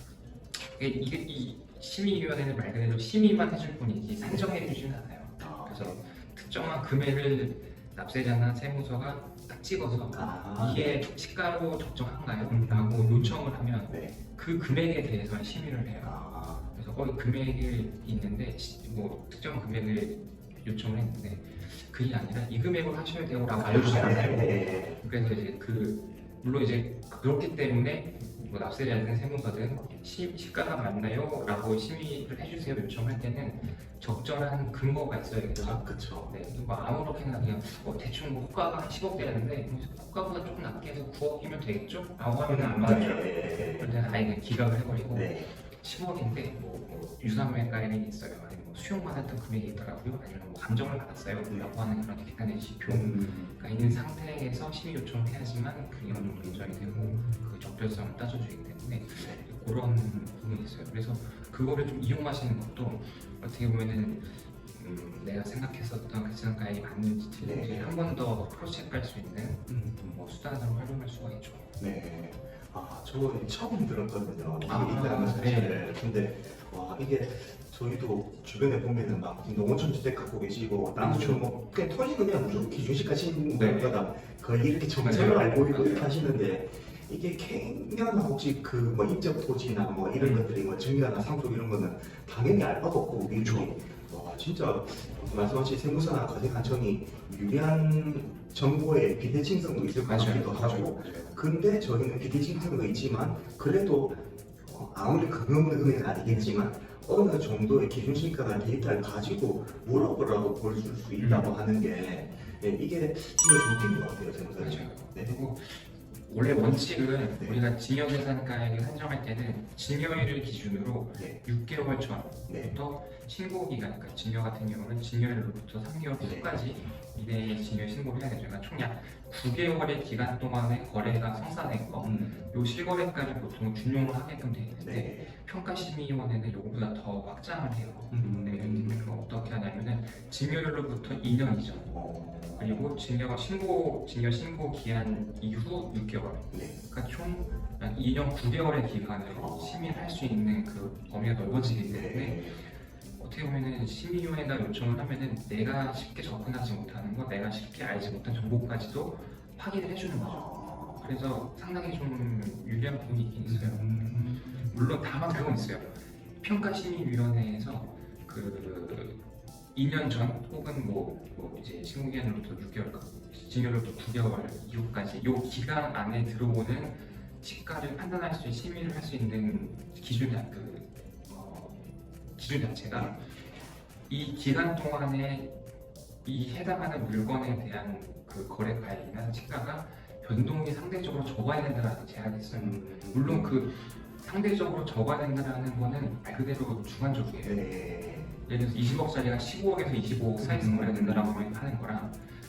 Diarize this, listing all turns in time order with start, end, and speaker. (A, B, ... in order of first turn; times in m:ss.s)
0:00.7-0:16.2 A
0:04.2-0:04.7 B
0:05.4-0:06.0 B
0:10.1-0:11.0 B
0:12.5-0:14.2 B
0:16.0-0:16.7 B
0:16.7-1:11.7 A
0:23.5-0:25.0 B
0:35.6-0:36.3 B
0:42.5-0:44.0 B
0:45.1-0:45.5 B
0:52.9-0:53.6 B
0:56.1-0:57.4 B
0:59.1-0:59.4 B
1:07.4-1:08.0 B
1:09.7-1:10.0 B
1:11.8-1:55.3 B
1:14.6-1:15.8 A
1:21.0-1:21.4 A
1:23.6-1:24.0 A
1:25.0-1:26.1 A
1:30.2-1:30.5 A
1:33.4-1:33.7 A
1:40.0-1:41.4 A
1:51.2-1:51.5 A
1:54.6-2:21.9 A
1:57.3-1:57.6 B
2:02.5-2:02.7 B
2:06.2-2:06.5 B
2:12.0-2:12.5 B
2:14.8-2:15.3 B
2:18.1-2:19.2 B
2:21.9-2:23.0 B
2:22.6-2:32.7 A
2:26.5-2:26.8 B
2:29.3-2:30.2 B
2:31.8-2:32.6 B
2:33.2-2:49.2 A
2:40.2-2:41.2 B
2:43.4-2:44.8 B
2:49.8-3:01.8 A
3:02.4-3:03.2 A
3:04.1-3:05.5 A
3:06.2-3:17.7 A
3:12.5-3:13.6 B
3:17.4-3:18.4 B
3:18.5-3:22.2 A
3:20.4-3:21.3 B